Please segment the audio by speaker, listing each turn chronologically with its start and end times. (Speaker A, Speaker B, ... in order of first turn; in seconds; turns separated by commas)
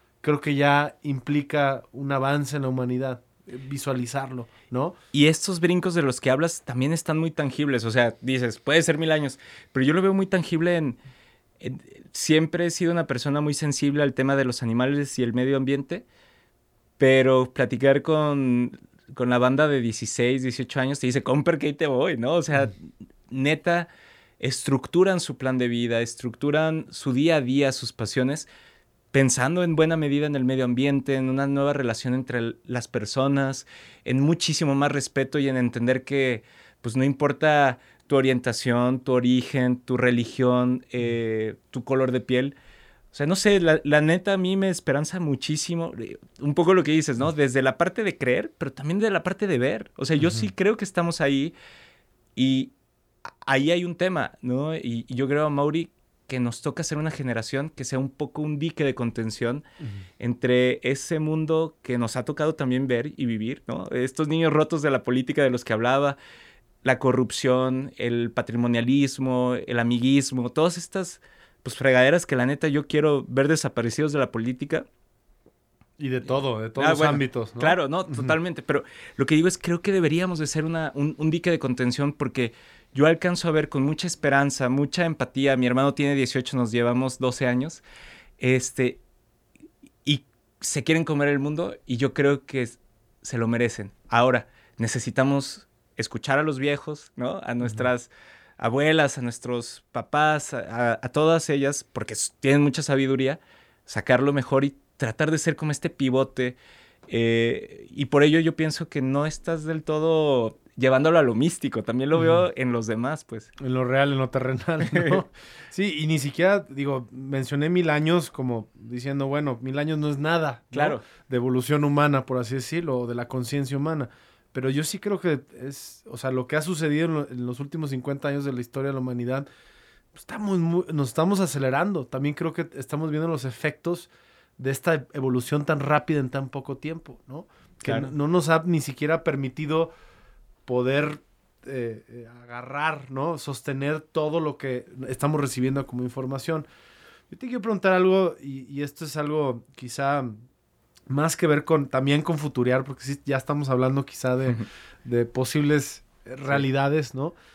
Speaker A: 0.2-5.0, Speaker B: 5.1-11.0, Speaker B: 11.6-16.1, Speaker B: 17.0-28.5, Speaker B: 29.1-42.5, Speaker B: 43.1-51.5, Speaker B: 52.4-52.7, Speaker B: 53.3-59.6, Speaker B: 60.2-66.2, Speaker B: 66.8-74.9, Speaker A: 76.0-78.3, Speaker B: 76.3-87.8, Speaker B: 88.4-89.0, Speaker B: 90.0-106.6, Speaker B: 107.1-113.5, Speaker A: 112.2-112.4, Speaker A: 113.6-129.5, Speaker B: 114.9-115.2, Speaker B: 120.7-121.0, Speaker A: 130.1-139.9, Speaker B: 137.8-138.1, Speaker A: 140.7-146.7, Speaker A: 147.3-150.4, Speaker A: 151.1-157.3